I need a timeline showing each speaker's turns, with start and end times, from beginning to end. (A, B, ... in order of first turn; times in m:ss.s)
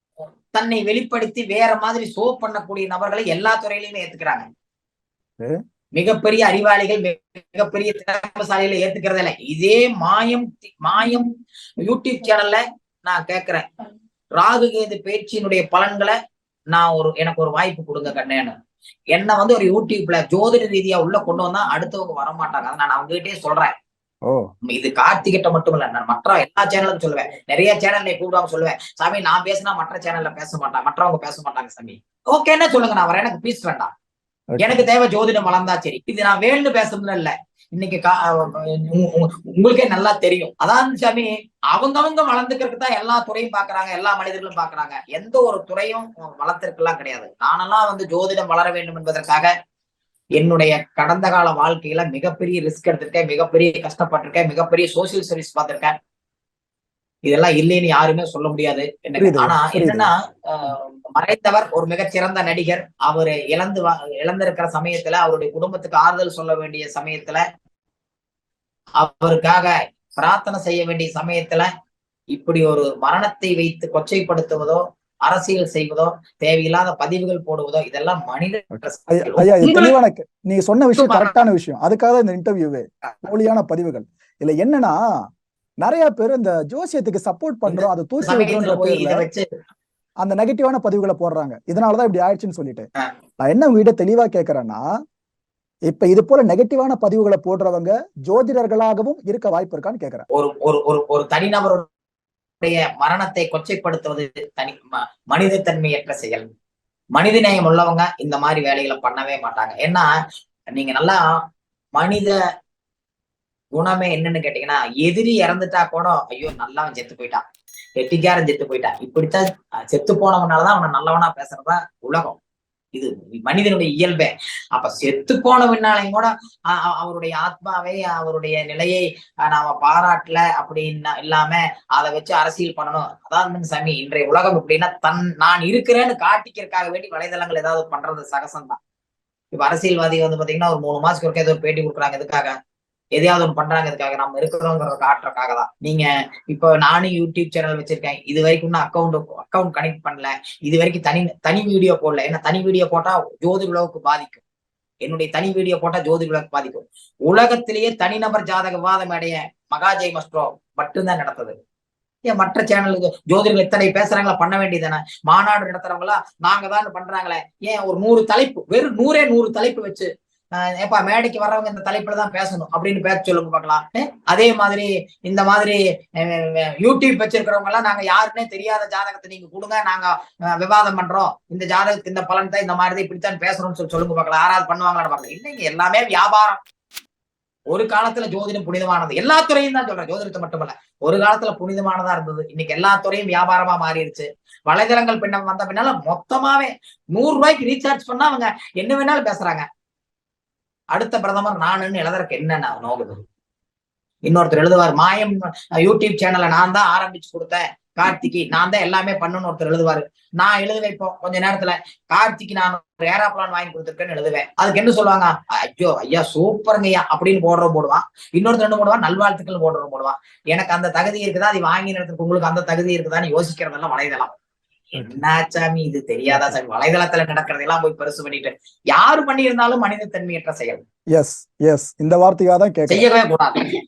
0:00.5-0:04.4 A
0:06.0-0:13.6 A
0:14.4-0:16.2 A
0:16.7-0:18.5 A
0:19.1-0:23.7 A
0:24.6-0:33.9 A
0:34.5-0:34.8 B
0:34.6-0:49.5 A
0:50.4-0:56.0 A
0:57.2-1:07.4 A
0:59.2-1:00.1 B
1:09.0-1:11.7 A
1:12.3-1:19.9 A
1:19.1-1:25.0 B
1:21.0-1:21.4 A
1:25.8-1:29.2 B
1:27.7-1:29.5 A
1:30.2-1:32.9 B
1:33.4-1:34.8 B
1:35.9-1:40.2 B
1:40.3-1:41.8 A
1:42.6-1:46.4 A
1:47.1-1:50.1 A
1:50.7-1:51.2 A
1:52.0-1:52.4 A
1:53.7-1:57.4 A
1:58.0-2:02.4 A
2:02.9-2:18.8 A
2:19.5-2:22.5 A
2:23.1-2:34.4 A
2:35.0-2:41.5 A
2:42.2-3:06.6 A
3:07.7-3:19.6 A
3:20.9-3:23.2 A
3:24.2-3:44.3 A
3:45.0-3:45.2 B
3:45.0-3:50.8 A
3:46.3-3:46.6 B
3:51.1-3:53.1 B
3:52.9-3:53.8 A